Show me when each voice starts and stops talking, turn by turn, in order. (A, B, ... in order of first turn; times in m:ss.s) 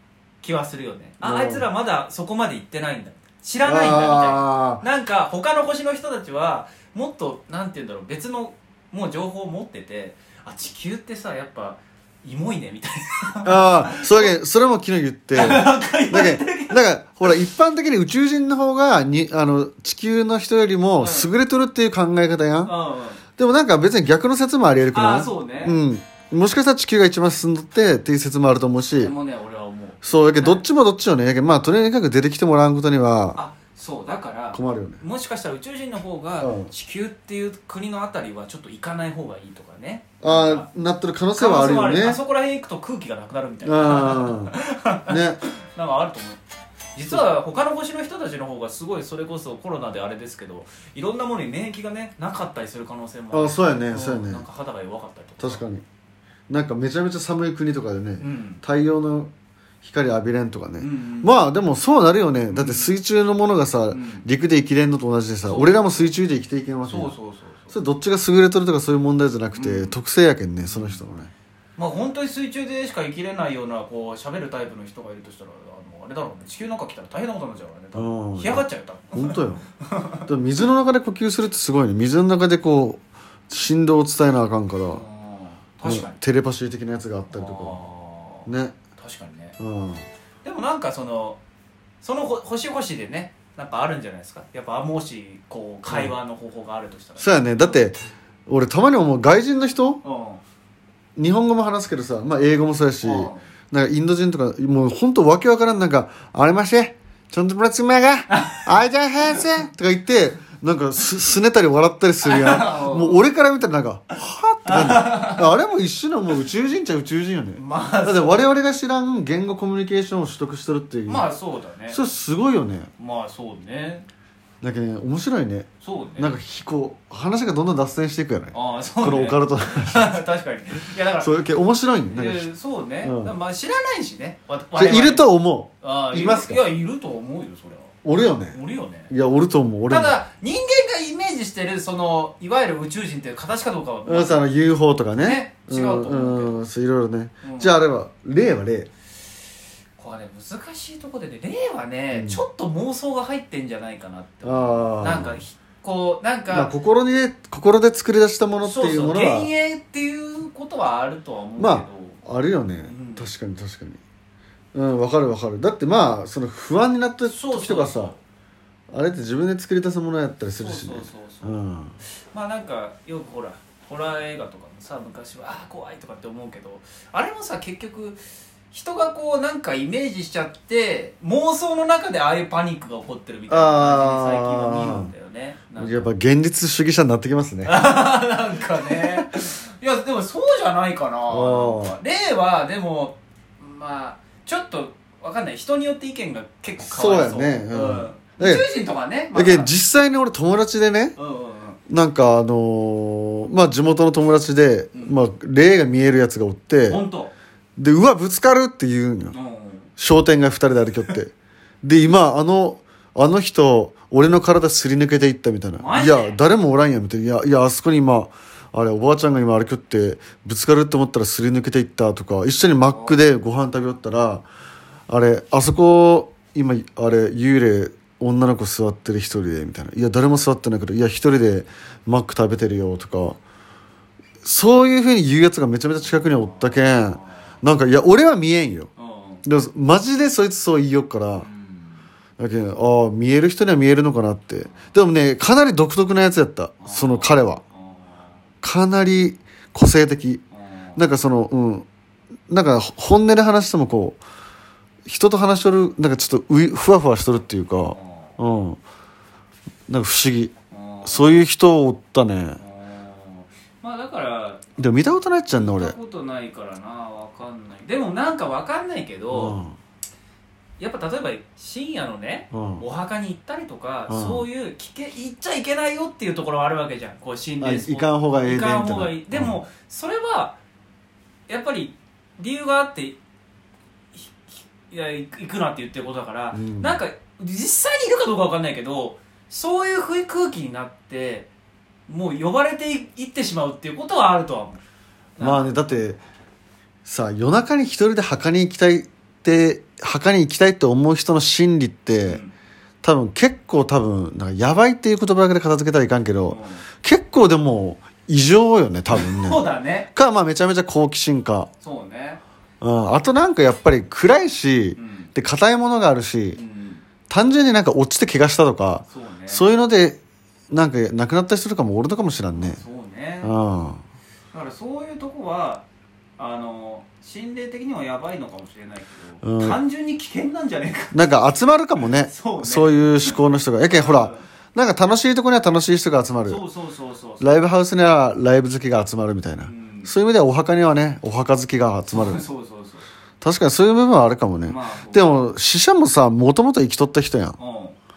0:00.4-0:14.4 A
0:01.2-0:01.6 B
0:03.6-0:04.8 B
0:13.4-0:22.8 B
0:15.3-0:17.3 A
0:21.0-0:21.3 A
0:22.6-0:23.2 A
0:23.4-0:29.2 B
0:24.9-0:25.8 A
0:28.9-0:30.6 A
0:30.0-0:33.4 B
0:33.4-0:40.7 A
0:34.5-0:35.0 B
0:36.4-0:36.7 B
0:40.2-0:42.2 B
0:41.4-0:46.4 A
0:43.6-0:44.6 B
0:45.1-0:45.4 B
0:47.0-0:55.6 A
0:53.3-0:54.4 B
0:55.4-0:55.8 B
0:56.5-0:59.3 B
0:58.2-0:58.6 A
0:59.8-1:07.1 B
1:00.8-1:01.4 A
1:02.5-1:03.0 A
1:03.9-1:04.3 A
1:05.4-1:06.1 A
1:06.9-1:07.8 A
1:07.7-1:11.3 B
1:09.5-1:10.0 A
1:10.7-1:11.0 A
1:11.8-1:20.3 A
1:18.0-1:19.6 B
1:20.3-1:25.0 B
1:24.9-1:26.2 A
1:25.8-1:27.8 B
1:27.3-1:29.6 A
1:28.5-1:28.8 B
1:29.6-1:30.0 B
1:30.4-1:31.4 A
1:32.0-1:37.8 A
1:35.9-1:36.1 B
1:37.2-1:40.0 B
1:40.0-1:40.4 A
1:41.2-2:01.3 B
1:43.0-1:43.4 A
1:48.3-1:48.7 A
1:52.2-1:53.2 A
1:54.6-1:55.5 A
1:57.6-1:58.4 A
2:01.1-2:02.0 A
2:01.9-2:02.9 B
2:03.0-2:04.1 A
2:04.6-2:10.2 B
2:05.8-2:06.4 A
2:08.5-2:11.3 A
2:11.1-2:12.5 B
2:12.1-2:15.3 A
2:13.0-2:13.4 B
2:14.8-2:16.6 B
2:15.8-2:17.9 A
2:18.0-2:18.6 B
2:18.5-2:19.1 A
2:19.1-2:20.2 B
2:19.9-2:24.5 A
2:24.0-2:28.9 B
2:25.2-2:26.6 A
2:27.4-2:27.8 A
2:30.0-2:36.7 A
2:32.1-2:32.4 B
2:34.4-2:35.4 B
2:36.5-2:39.5 B
2:38.6-2:42.2 A
2:41.6-2:44.0 B
2:42.9-2:43.3 A
2:44.7-2:48.1 B
2:47.3-2:48.2 A
2:48.9-2:52.0 B
2:50.6-2:51.6 A
2:52.3-2:58.2 A
2:58.7-3:06.1 A
3:03.5-3:05.1 B
3:05.8-3:07.8 B
3:07.6-3:19.7 A
3:08.9-3:09.3 B
3:11.3-3:12.0 B
3:16.8-3:18.7 B
3:19.3-3:21.2 B
3:21.2-3:21.8 A
3:21.9-3:27.0 B
3:24.9-3:25.2 A
3:26.9-3:27.3 A
3:27.8-3:29.4 B
3:29.3-3:29.9 A
3:30.0-3:44.4 B
3:35.8-3:36.4 A
3:42.9-3:43.2 A
3:45.1-3:53.4 B
3:54.4-3:58.9 B
3:56.2-3:57.4 A
3:59.0-3:59.4 A
3:59.4-4:01.5 B
4:01.4-4:02.1 A
4:02.4-4:07.6 B
4:06.8-4:08.4 A
4:08.6-4:10.4 B
4:10.5-4:11.1 A
4:11.0-4:11.9 B
4:12.5-4:14.2 B
4:15.1-4:18.8 B
4:17.8-4:18.4 A
4:19.9-4:20.5 B
4:20.7-4:21.4 A
4:21.0-4:22.6 B
4:22.6-4:24.6 A
4:24.8-4:26.0 B
4:25.5-4:29.6 A
4:29.3-4:29.8 B
4:30.8-4:40.6 A
4:32.5-4:32.8 B
4:34.1-4:34.5 B
4:37.6-4:39.6 B
4:41.5-4:43.2 A
4:44.1-4:51.5 A
4:46.5-4:47.0 B
4:52.1-4:54.8 A
4:55.4-4:55.9 A
4:55.4-4:56.2 B
4:57.0-5:02.4 B
5:02.3-5:02.5 A
5:03.0-5:11.7 B
5:06.4-5:06.8 A
5:09.1-5:10.1 A
5:11.8-5:12.4 A
5:12.8-5:16.6 B
5:15.0-5:15.3 A
5:16.6-5:17.0 A
5:17.3-5:20.2 B
5:19.1-5:19.7 A
5:20.7-5:22.8 B
5:22.5-5:23.5 A
5:23.4-5:24.0 B
5:24.5-5:25.9 A
5:26.4-5:31.2 A
5:29.4-5:29.8 B
5:31.1-5:36.6 B
5:32.0-5:34.4 A
5:36.5-5:37.5 A
5:37.4-5:42.4 B
5:39.6-5:40.1 A
5:42.1-5:43.1 A
5:43.4-5:47.6 B
5:44.6-5:45.4 A
5:47.6-5:48.0 A